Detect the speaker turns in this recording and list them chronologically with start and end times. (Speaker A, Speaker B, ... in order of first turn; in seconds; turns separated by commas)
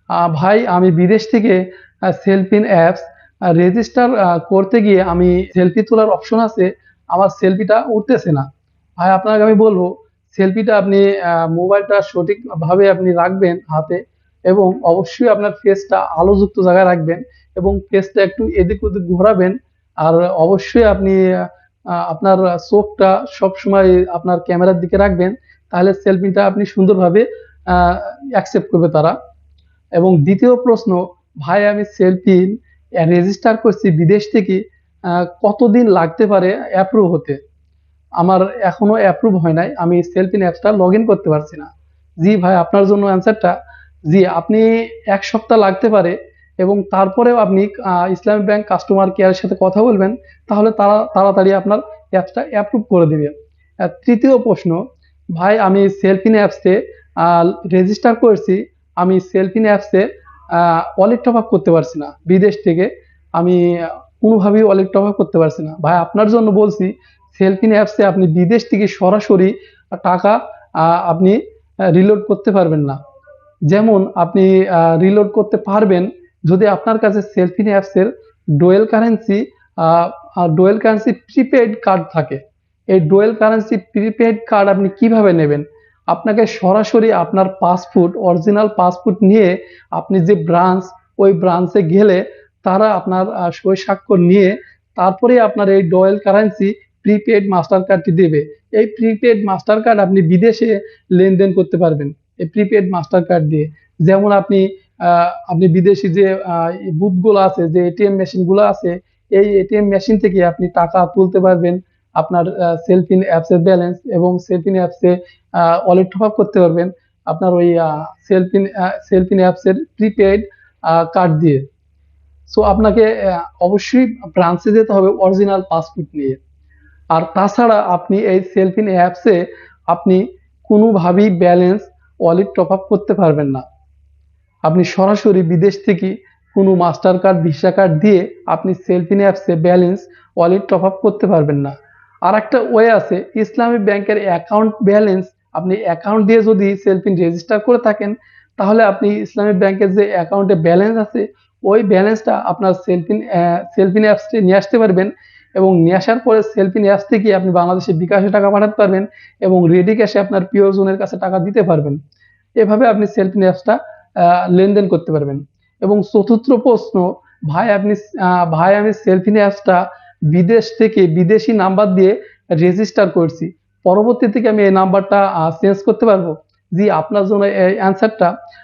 Speaker A: 0.1-8.5, Speaker A: 9.0-29.2, Speaker A: 30.0-37.4, Speaker A: 38.2-41.7, Speaker A: 42.2-43.5, Speaker A: 44.1-54.8, Speaker A: 55.3-73.0, Speaker A: 73.7-82.4, Speaker A: 82.9-121.7, Speaker A: 122.5-126.4, Speaker A: 127.1-133.6, Speaker A: 134.7-162.0, Speaker A: 162.6-178.3